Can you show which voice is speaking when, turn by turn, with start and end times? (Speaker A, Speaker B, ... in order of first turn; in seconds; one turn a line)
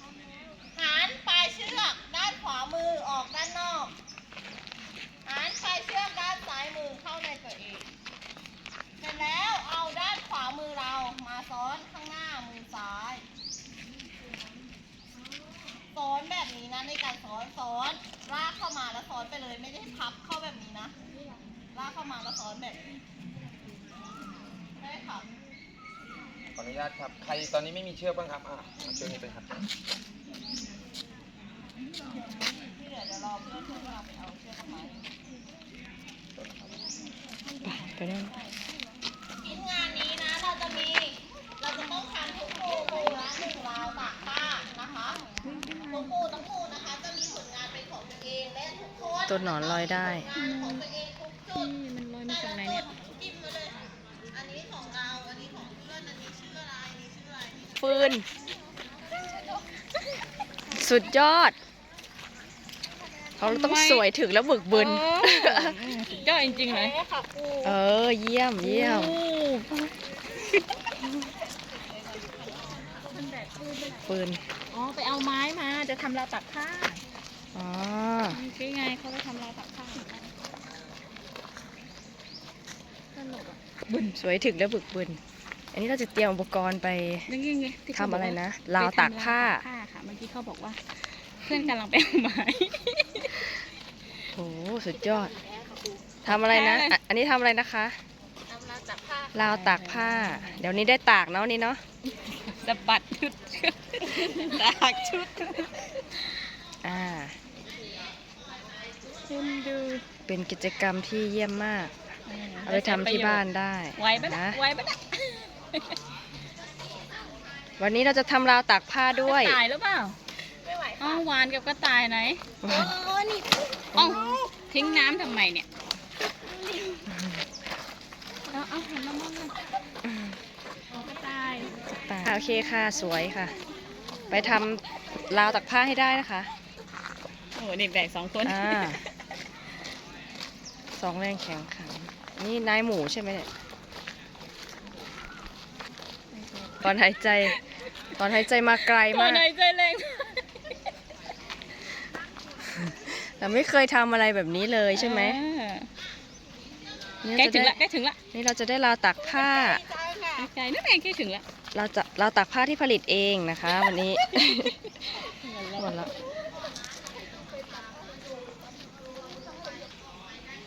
Speaker A: 0.7-3.9
Speaker A: 5.3-7.9
Speaker A: 9.0-13.2
Speaker A: 15.9-20.9
Speaker A: 21.7-22.8
Speaker A: 24.8-25.3
Speaker B: 26.6-29.5
Speaker A: 32.5-35.0
Speaker C: 37.6-38.4
Speaker A: 39.4-45.2
Speaker D: 45.4-46.1
Speaker A: 45.9-51.7
Speaker C: 49.3-50.2
Speaker D: 50.4-50.8
Speaker D: 51.6-52.9
Speaker A: 52.3-58.0
Speaker C: 57.8-58.3
Speaker C: 60.8-61.6
Speaker C: 63.4-65.8
Speaker D: 63.4-64.0
Speaker D: 64.8-66.9
Speaker A: 66.0-67.7
Speaker C: 67.6-69.2
Speaker D: 68.6-69.9
Speaker A: 71.8-73.0
Speaker D: 73.1-74.0
Speaker C: 74.1-74.4
Speaker D: 74.7-77.0
Speaker C: 77.5-78.4
Speaker D: 78.3-80.3
Speaker D: 83.1-84.2
Speaker C: 84.2-85.2
Speaker C: 85.7-87.3
Speaker D: 87.3-93.4
Speaker C: 88.0-89.7
Speaker C: 94.3-95.3
Speaker A: 95.1-96.0
Speaker C: 96.2-98.0
Speaker D: 96.4-97.0
Speaker A: 98.5-99.3
Speaker C: 99.3-101.8
Speaker D: 99.5-100.6
Speaker D: 102.6-105.8
Speaker C: 106.8-107.4
Speaker D: 109.3-110.1
Speaker C: 110.3-112.1
Speaker D: 112.3-113.4
Speaker C: 112.7-114.6
Speaker D: 114.0-115.9
Speaker C: 117.8-119.6
Speaker D: 119.2-120.2
Speaker A: 120.7-121.2
Speaker D: 121.0-122.4
Speaker C: 122.6-122.9
Speaker A: 122.7-123.5
Speaker D: 124.0-125.7
Speaker D: 128.5-129.7
Speaker C: 130.1-130.4
Speaker D: 130.9-131.8
Speaker C: 132.0-133.5
Speaker C: 134.3-136.5
Speaker D: 137.6-138.9
Speaker C: 138.4-139.0
Speaker C: 141.0-143.5
Speaker D: 146.3-146.9
Speaker C: 146.8-147.6
Speaker C: 148.2-149.5
Speaker D: 149.1-150.5
Speaker C: 152.7-155.4
Speaker D: 154.9-155.9
Speaker C: 157.2-157.8
Speaker D: 157.3-158.2
Speaker C: 158.3-159.8
Speaker A: 159.3-160.5
Speaker D: 160.4-161.4
Speaker C: 161.7-164.8
Speaker D: 165.4-165.9
Speaker C: 165.8-166.1
Speaker A: 167.5-168.5
Speaker A: 169.4-170.1